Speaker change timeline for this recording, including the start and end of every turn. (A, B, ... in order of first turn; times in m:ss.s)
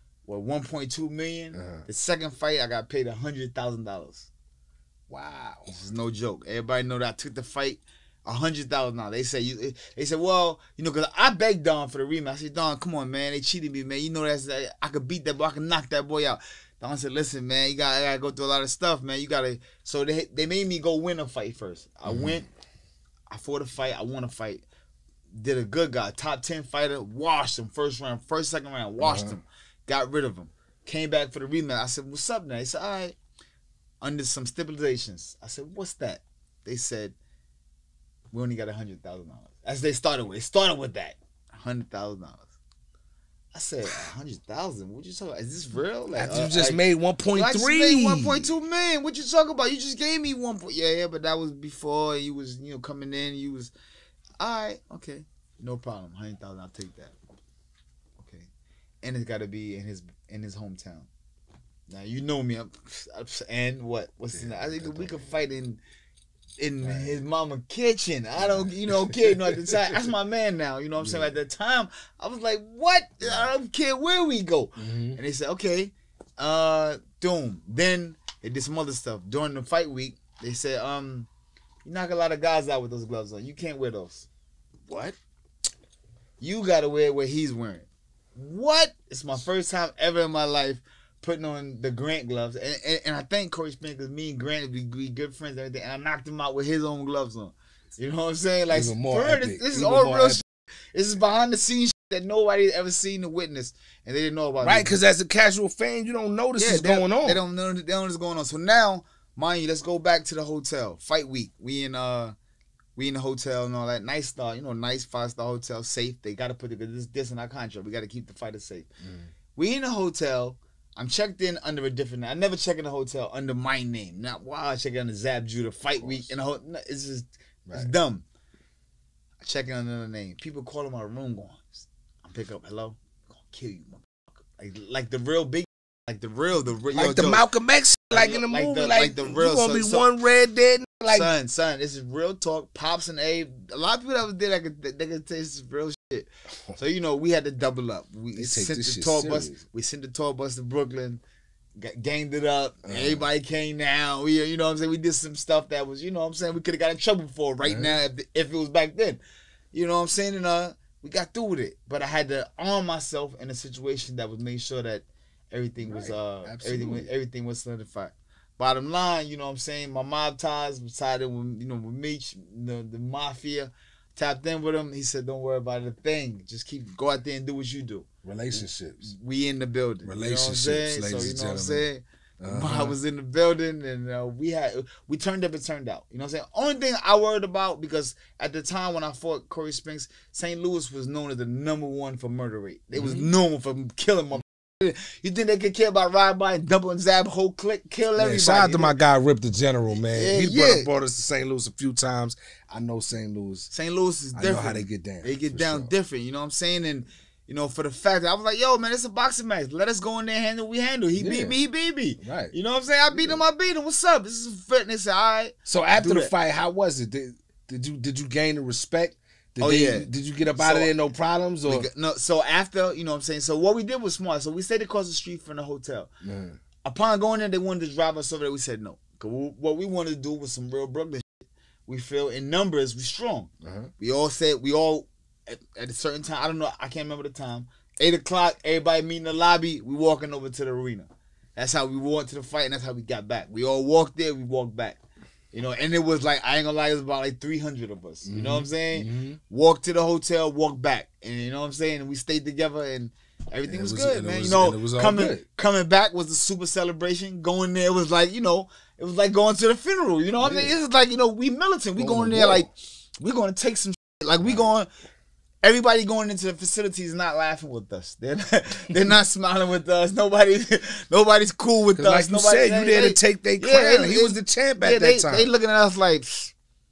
0:00.2-0:04.3 A
0:01.5-0:01.8 B
0:05.1-0:05.7 B
0:05.7-0:22.4 A
0:22.0-0:22.4 B
0:23.3-0:24.6 A
0:25.3-0:33.2 A
0:29.0-0:29.3 B
0:34.0-0:37.1 A
0:38.3-0:42.5 A
0:43.5-0:46.8 A
0:46.1-0:48.5 B
0:47.3-0:53.7 A
0:54.4-0:57.2 A
0:58.2-0:58.5 A
0:59.0-1:01.1 A
1:01.9-1:05.8 A
1:04.3-1:05.4 B
1:06.6-1:21.3 A
1:06.8-1:07.2 B
1:08.4-1:10.1 B
1:11.0-1:11.3 B
1:13.2-1:13.5 B
1:14.8-1:15.2 B
1:21.8-1:24.3 A
1:24.9-1:25.2 A
1:26.4-1:45.0 A
1:38.7-1:40.4 B
1:44.6-1:47.4 B
1:46.6-1:52.4 A
1:53.0-1:58.9 A
1:59.0-1:59.3 B
1:59.5-2:08.2 A
2:06.0-2:06.3 B
2:09.4-2:17.4 A
2:16.9-2:21.3 B
2:18.1-2:20.1 A
2:21.1-2:31.2 A
2:28.4-2:29.6 B
2:31.8-2:39.2 A
2:32.8-2:33.3 B
2:37.6-2:38.0 B
2:39.7-3:18.9 A
2:45.8-2:47.1 B
2:58.2-2:59.1 B
3:00.0-3:01.8 B
3:02.4-3:03.0 B
3:12.9-3:13.3 B
3:18.2-3:23.7 B
3:20.1-3:20.9 A
3:23.7-3:36.3 A
3:24.3-3:25.9 B
3:31.1-3:31.6 B
3:32.2-3:32.5 B
3:33.1-3:33.4 B
3:35.6-3:41.9 B
3:39.6-3:40.9 A
3:41.6-3:46.1 A
3:46.2-3:46.6 B
3:46.8-4:05.0 A
3:53.6-3:53.9 B
4:05.5-4:24.9 A
4:08.2-4:09.4 B
4:13.7-4:15.4 B
4:20.4-4:20.8 B
4:22.0-4:22.7 B
4:24.4-4:24.7 B
4:25.6-4:36.5 A
4:31.9-4:35.5 B